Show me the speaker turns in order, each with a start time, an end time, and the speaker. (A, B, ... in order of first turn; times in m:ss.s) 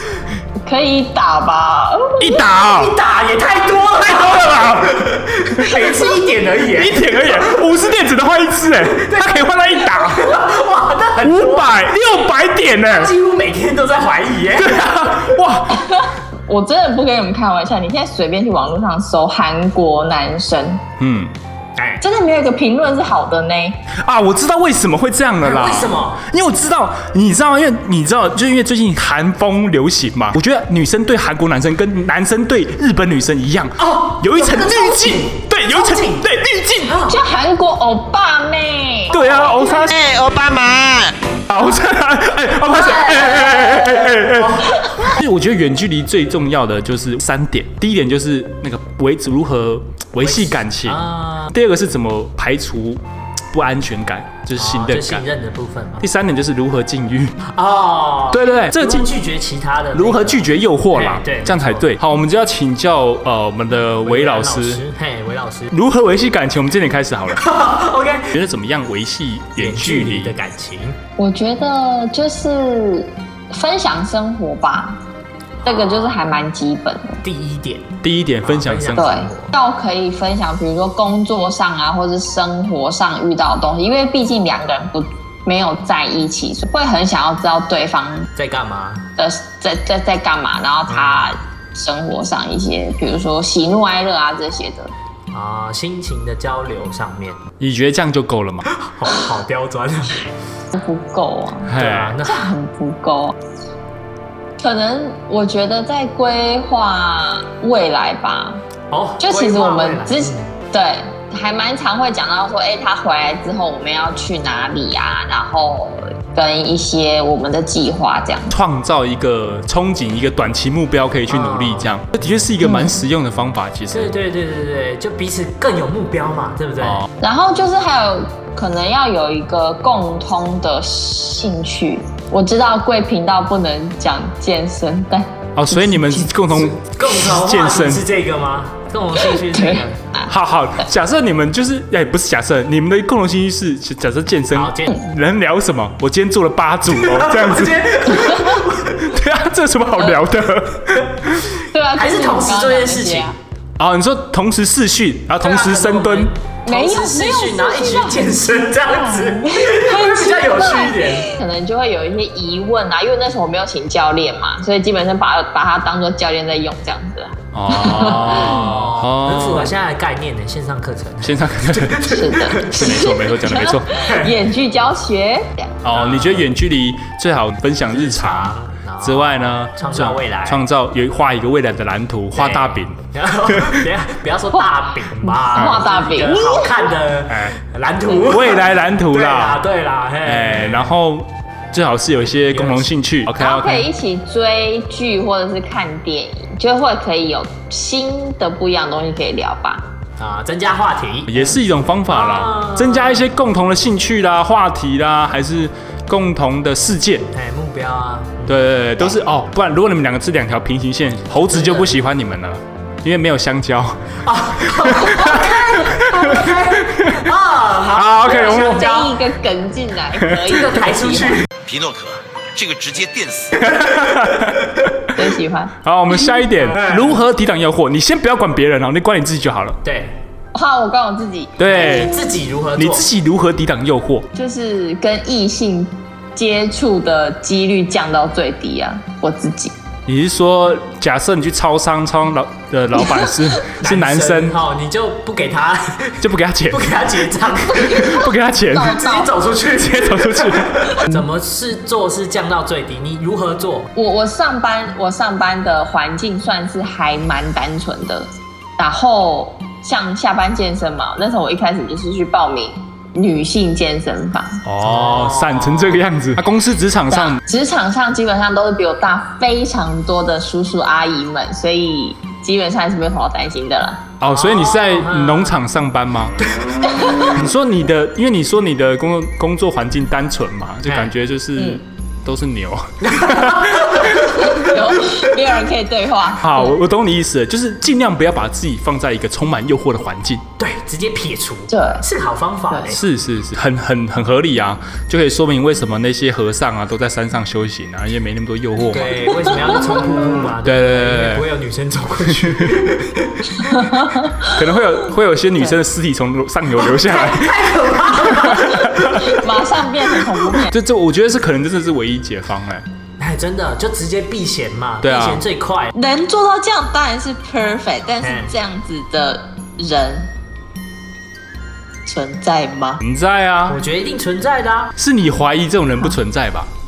0:00.6-0:02.3 A
0:02.2-0:03.0 B
0:02.6-0:07.6 C
0:04.2-0:05.7 B
0:06.7-0:10.3 B
0:08.8-0:11.8 C
0:11.2-0:13.1 B
0:12.9-0:15.3 C
0:14.6-0:15.9 B
0:15.7-0:20.8 A
0:21.0-0:21.3 B
0:21.8-0:22.0 C
0:22.0-0:23.8 A
0:23.9-0:37.0 B
0:25.4-0:26.2 C
0:33.8-0:36.2 C
0:36.9-0:37.2 C
0:37.0-0:39.3 A
0:39.1-0:40.3 B
0:41.5-0:53.0 B
0:42.7-0:44.8 C
0:50.2-0:51.5 C
0:53.5-0:55.2 B
0:54.6-0:56.0 C
0:56.0-0:57.4 B
0:57.5-1:02.0 C
0:58.3-0:59.1 B
0:59.9-1:04.8 B
1:04.0-1:05.7 C
1:05.7-1:07.4 B
1:07.4-1:08.3 C
1:08.3-1:10.3 B
1:09.6-1:11.0 C
1:11.2-1:15.0 A
1:15.6-1:16.2 C
1:15.6-1:17.2 A
1:17.2-1:17.9 C
1:18.0-1:19.0 B
1:18.4-1:19.5 C
1:18.9-1:28.3 A
1:28.4-1:29.0 C
1:29.2-1:34.9 A
1:30.9-1:31.3 C
1:35.3-1:37.4 C
1:37.6-1:38.7 B
1:38.8-1:40.3 C
1:40.7-1:43.4 A
1:41.7-1:42.2 B
1:41.8-1:42.5 C
1:44.6-1:48.6 A
1:48.9-1:50.5 C
1:49.2-1:58.5 A
1:58.5-2:04.1 B
2:01.3-2:01.9 C
2:02.6-2:03.0 A
2:03.9-2:07.0 C
2:07.2-2:16.3 A
2:15.6-2:18.0 B
2:16.5-2:20.0 C
2:19.4-2:20.2 A
2:20.3-2:28.2 B
2:24.5-2:25.0 C
2:26.9-2:29.0 C
2:29.0-2:31.5 B
2:31.7-2:33.4 A
2:31.9-2:33.3 C
2:33.8-2:36.3 B
2:35.4-2:41.3 C
2:36.6-2:38.3 A
2:39.2-2:48.3 A
2:47.5-2:49.7 B
2:48.0-2:52.9 C
2:51.2-2:53.9 B
2:52.0-2:55.8 A
2:53.9-2:54.4 C
2:55.8-3:03.8 B
2:55.9-2:56.5 C
2:57.9-3:00.6 C
3:02.3-3:10.9 C
3:05.2-3:06.9 A
3:07.3-3:07.6 B
3:08.1-3:09.6 B
3:10.2-3:13.9 B
3:12.5-3:12.9 C
3:13.4-3:19.9 A
3:20.2-3:23.3 C
3:21.3-3:27.3 B
3:27.3-3:29.1 C
3:28.5-3:34.0 B
3:31.5-3:31.9 C
3:34.2-3:39.2 C
3:34.8-3:37.2 B
3:37.9-3:38.8 B
3:38.2-3:41.4 A
3:40.3-3:41.5 C
3:41.6-3:43.6 D
3:43.6-3:44.6 B
3:45.1-3:45.7 A
3:45.8-3:49.8 B
3:46.5-3:47.2 C
3:49.8-3:50.1 C
3:50.5-3:52.1 A
3:51.6-3:52.1 B
3:51.7-3:53.1 C
3:52.8-3:54.3 B
3:54.3-3:59.8 A
4:00.0-4:04.6 B
4:03.8-4:13.9 C
4:06.2-4:07.0 B
4:07.8-4:09.0 B
4:08.7-4:09.3 A
4:09.8-4:11.1 B
4:13.9-4:24.6 A
4:24.6-4:27.4 B
4:24.8-4:26.0 C
4:27.1-4:34.0 A
4:34.2-4:36.4 B
4:34.3-4:35.6 C
4:36.4-4:36.7 C
4:37.2-4:44.3 B
4:40.9-4:41.1 C
4:43.0-4:44.6 C
4:44.4-4:46.8 A
4:46.4-4:50.4 B
4:50.6-4:53.0 C
4:51.7-4:52.0 A
4:52.9-4:59.3 B
4:58.9-5:03.7 C
5:00.6-5:01.4 B
5:02.4-5:02.8 B
5:03.6-5:04.4 A
5:04.4-5:07.6 B
5:06.8-5:09.3 C
5:08.3-5:09.3 B
5:09.1-5:10.7 A
5:10.7-5:12.8 B
5:13.2-5:15.9 C
5:15.0-5:15.4 B
5:15.9-5:20.3 A
5:18.2-5:18.5 C
5:22.0-5:23.0 A
5:23.0-5:23.8 B
5:23.7-5:24.9 C
5:25.0-5:26.7 B